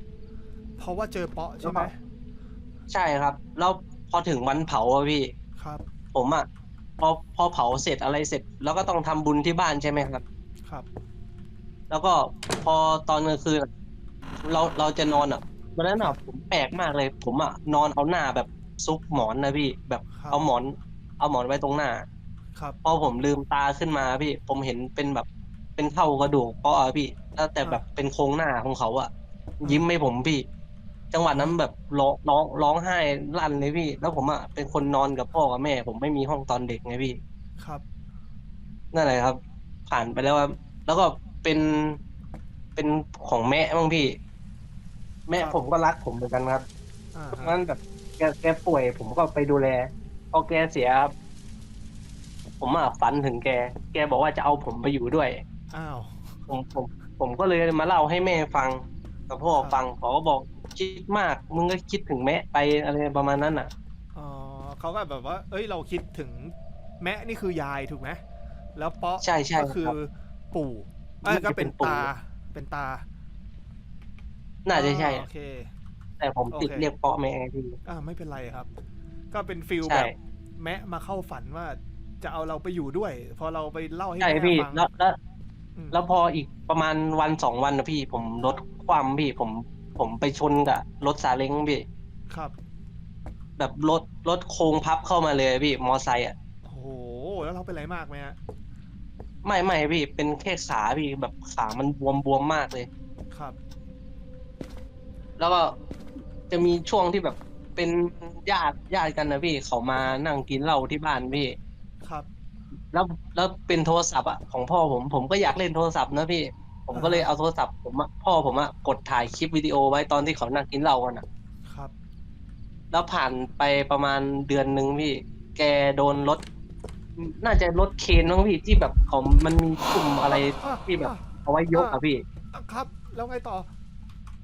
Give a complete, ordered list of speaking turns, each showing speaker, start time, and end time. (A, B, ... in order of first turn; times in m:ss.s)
0:00.8-0:02.0 A
0:01.6-0:01.9 B
0:02.9-0:05.3 B
0:05.6-0:05.8 A
0:06.1-0:06.5 B
0:07.0-0:10.2 B
0:11.9-0:13.7 B
0:14.4-0:22.0 B
0:20.1-0:20.5 A
0:22.8-0:25.2 B
0:25.8-0:29.1 B
0:29.6-0:30.4 B
0:29.6-0:29.9 A
0:31.1-0:37.2 B
0:37.6-0:37.8 A
0:38.9-0:42.0 B
0:42.8-0:44.1 B
0:45.3-0:46.6 B
0:47.1-0:47.6 A
0:47.3-0:51.1 B
0:52.6-0:55.4 B
0:55.7-0:56.4 A
0:56.5-1:03.7 B
0:59.5-0:59.8 A
1:04.1-1:08.2 A
1:08.8-1:13.0 A
1:09.2-1:09.9 B
1:11.2-1:12.1 B
1:14.6-1:15.2 B
1:14.7-1:15.7 A
1:16.2-1:17.8 B
1:16.5-1:16.9 A
1:17.8-1:18.7 A
1:19.3-1:25.0 A
1:19.8-1:20.1 B
1:24.2-1:25.2 B
1:25.9-1:31.8 B
1:33.6-1:36.3 B
1:36.6-1:38.4 A
1:39.4-1:42.9 B
1:43.3-1:43.6 A
1:45.4-1:45.8 B
1:46.5-1:51.6 B
1:52.0-1:52.3 A
1:52.9-2:01.2 B
1:56.9-1:57.3 A
2:01.7-2:01.9 A
2:02.9-2:06.4 B
2:07.2-2:12.2 B
2:10.3-2:12.0 A
2:12.5-2:13.7 A